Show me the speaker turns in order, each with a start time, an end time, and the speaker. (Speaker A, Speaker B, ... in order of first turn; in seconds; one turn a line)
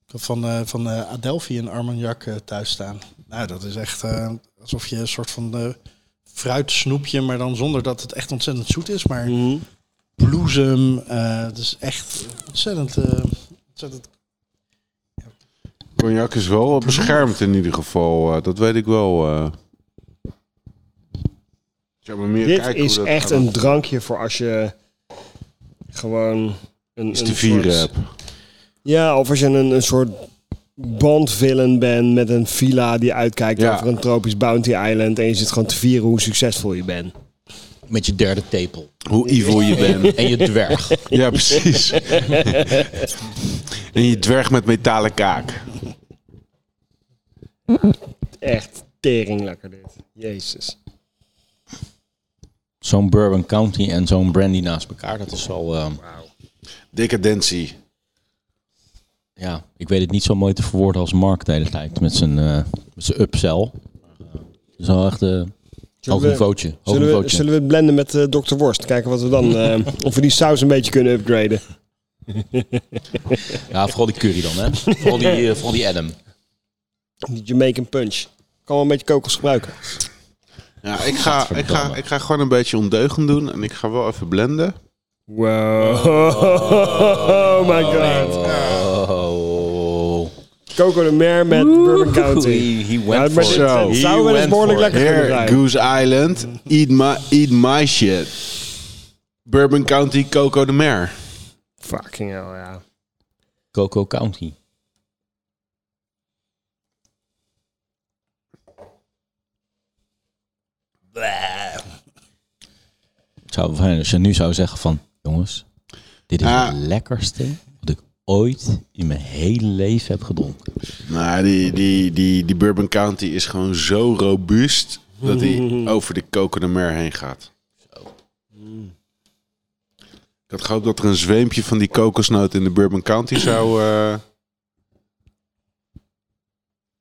Speaker A: 0.1-5.8
Speaker A: 6.3-9.3
Speaker B: 9.3-9.6
Speaker A: 10.2-14.1
Speaker C: 16.0-19.6
Speaker A: 16.8-17.2
Speaker C: 22.1-23.8
Speaker B: 22.4-24.7
Speaker B: 25.9-27.9
Speaker C: 27.1-28.1
Speaker B: 28.9-37.1
Speaker C: 33.6-33.9
Speaker D: 37.9-38.9
Speaker C: 39.1-40.5
Speaker B: 39.5-43.0
Speaker D: 39.8-41.0
Speaker C: 41.1-42.9
Speaker C: 43.8-45.6
Speaker B: 48.4-50.8
Speaker D: 52.8-56.0
Speaker B: 56.0-56.3
Speaker C: 56.9-57.7
Speaker D: 59.4-63.8
Speaker D: 64.8-65.5
Speaker B: 66.0-71.6
Speaker D: 66.1-67.4
Speaker B: 72.3-72.8
Speaker D: 73.7-76.2
Speaker B: 77.3-79.8
Speaker C: 80.8-84.8
Speaker D: 81.1-82.0
Speaker B: 85.3-88.4
Speaker D: 86.2-90.3
Speaker A: 88.0-88.9
Speaker B: 90.7-95.6
Speaker D: 91.5-95.2
Speaker C: 93.4-94.0
Speaker C: 94.8-98.3
Speaker C: 99.5-101.1
Speaker B: 101.8-102.8
Speaker D: 103.7-104.5
Speaker A: 111.2-111.8
Speaker D: 113.5-115.7
Speaker D: 116.3-120.6
Speaker C: 116.4-116.8
Speaker C: 121.0-127.5
Speaker B: 125.2-125.9
Speaker B: 128.6-128.9
Speaker C: 130.5-134.2